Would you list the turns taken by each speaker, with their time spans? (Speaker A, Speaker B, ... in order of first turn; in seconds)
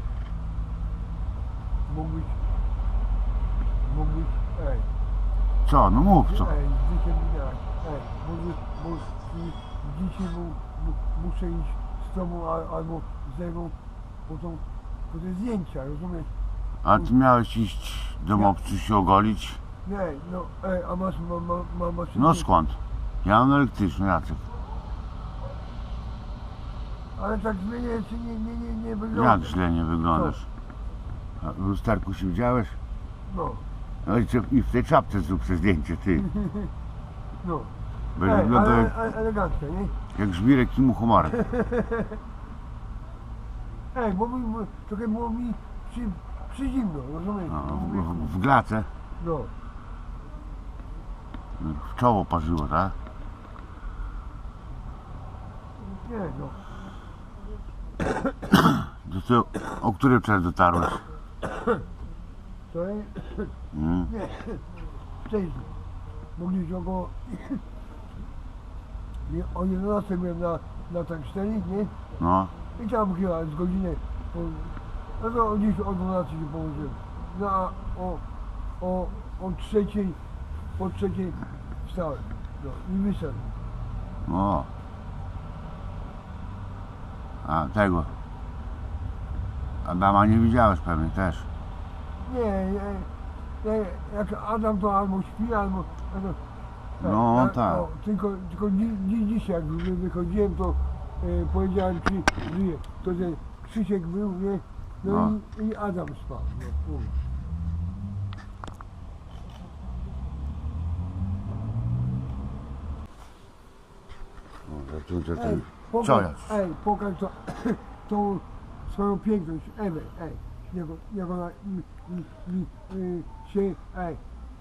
Speaker A: 1.9-2.4, 3.8-4.9, 6.3-13.7, 14.2-16.3, 19.8-22.4, 27.1-29.5, 33.3-33.6, 37.4-40.0, 41.4-42.1, 43.9-48.3, 49.2-49.5, 55.8-56.6, 62.7-63.5, 64.1-64.6, 65.2-65.7, 66.3-67.6, 69.2-71.9, 72.7-78.2, 78.8-80.2, 80.8-83.6, 92.2-93.1, 93.6-96.4, 97.0-107.1, 115.3-124.2
Speaker B: 5.6-6.5, 16.8-19.6, 22.1-24.4, 29.1-30.5, 31.4-32.8, 34.0-36.3, 38.1-38.9, 40.1-41.4, 47.5-48.9, 51.6-53.0, 58.5-61.1, 63.7-64.1, 72.2-72.5, 84.2-84.7, 87.4-88.1, 89.8-91.5, 97.0-97.8, 105.0-105.3, 114.7-116.5